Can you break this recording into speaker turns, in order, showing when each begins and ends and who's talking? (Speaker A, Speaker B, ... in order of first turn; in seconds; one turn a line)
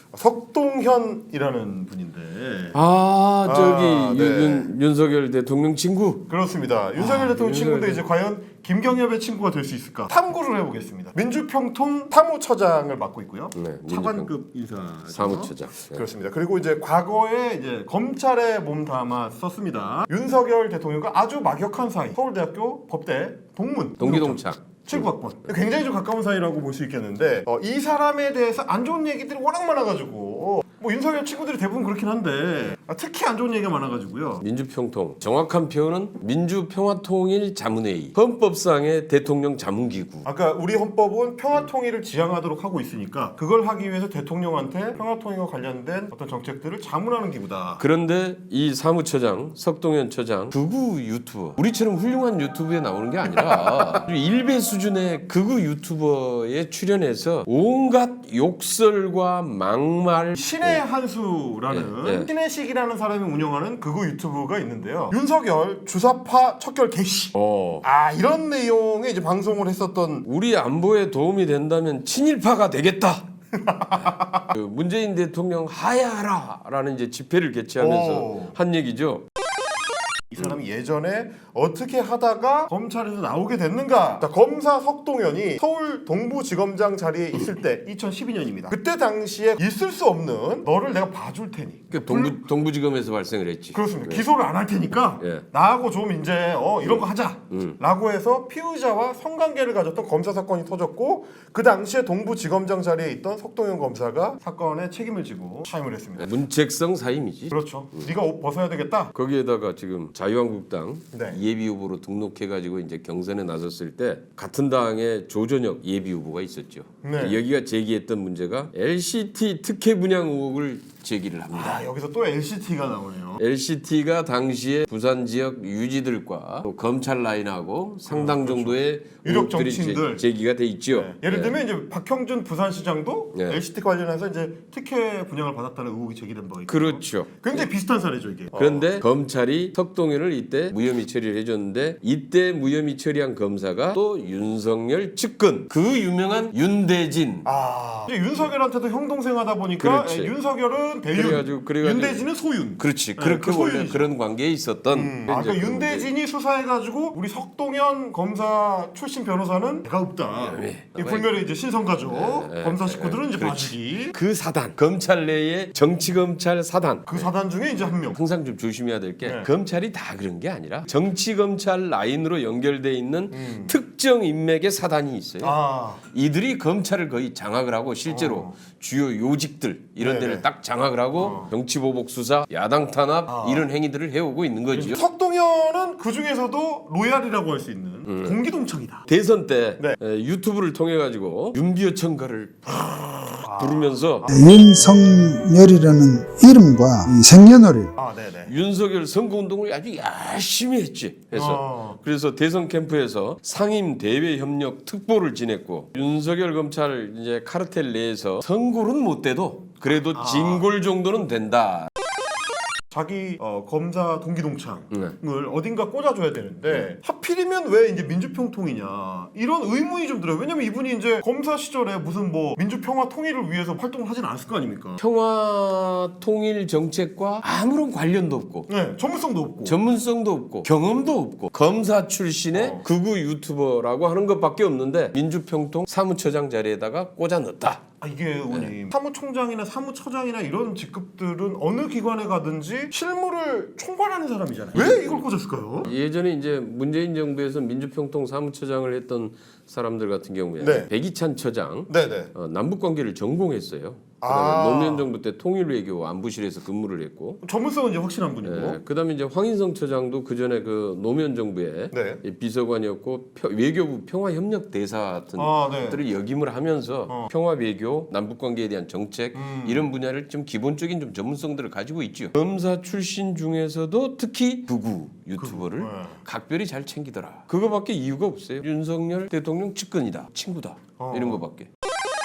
Speaker A: 0.1-2.8
Speaker B: 2.7-6.2
Speaker A: 3.4-4.7
Speaker A: 6.3-34.4
Speaker B: 7.0-8.0
Speaker B: 13.5-14.3
Speaker B: 15.1-16.0
Speaker B: 24.0-25.1
Speaker B: 34.4-40.2
Speaker A: 40.2-47.8
Speaker B: 47.8-60.8
Speaker A: 53.2-53.9
Speaker A: 60.3-70.2
Speaker B: 61.7-62.3
Speaker B: 67.3-67.8
Speaker B: 70.2-73.2
Speaker A: 73.5-74.5
Speaker B: 74.0-79.2
Speaker A: 77.8-78.5
Speaker A: 80.3-92.5
Speaker B: 91.9-94.2
Speaker A: 93.7-106.4
Speaker B: 95.1-95.4
Speaker B: 96.8-97.8
Speaker B: 106.2-108.1
Speaker A: 107.5-109.1
Speaker B: 109.1-121.8
Speaker A: 111.1-111.4
Speaker A: 117.0-117.4
Speaker A: 121.5-123.4
Speaker B: 123.4-131.6
Speaker A: 128.1-130.2
Speaker A: 130.9-139.0
Speaker B: 133.3-133.6
Speaker B: 136.7-137.7
Speaker B: 138.5-147.5
Speaker A: 147.4-154.1
Speaker B: 149.8-150.3
Speaker B: 151.1-152.2
Speaker B: 152.8-156.1
Speaker A: 154.9-164.2
Speaker B: 160.4-161.3
Speaker B: 162.1-167.3
Speaker A: 167.1-168.2
Speaker B: 168.1-185.0
Speaker A: 169.2-169.5
Speaker A: 173.3-173.8
Speaker A: 175.4-176.0
Speaker A: 178.1-178.6
Speaker A: 180.0-180.5
Speaker A: 181.2-181.5
Speaker A: 183.3-183.7
Speaker A: 184.7-189.1
Speaker B: 188.1-188.4
Speaker B: 189.1-194.3
Speaker A: 193.4-194.5
Speaker C: 194.3-197.9
Speaker A: 197.9-198.5
Speaker B: 198.5-211.9
Speaker A: 201.3-202.0
Speaker A: 209.9-210.7
Speaker A: 212.9-225.0
Speaker B: 225.0-228.7
Speaker A: 228.7-229.8
Speaker B: 229.6-237.8
Speaker A: 232.5-232.8
Speaker A: 238.0-245.9
Speaker B: 244.7-245.3
Speaker B: 245.8-257.4
Speaker A: 250.6-250.9
Speaker A: 251.9-252.3
Speaker A: 254.2-255.1
Speaker A: 257.4-258.8
Speaker B: 258.4-281.7
Speaker A: 261.9-262.2
Speaker A: 265.4-266.0
Speaker A: 269.3-269.9
Speaker A: 275.4-276.2
Speaker A: 281.0-281.4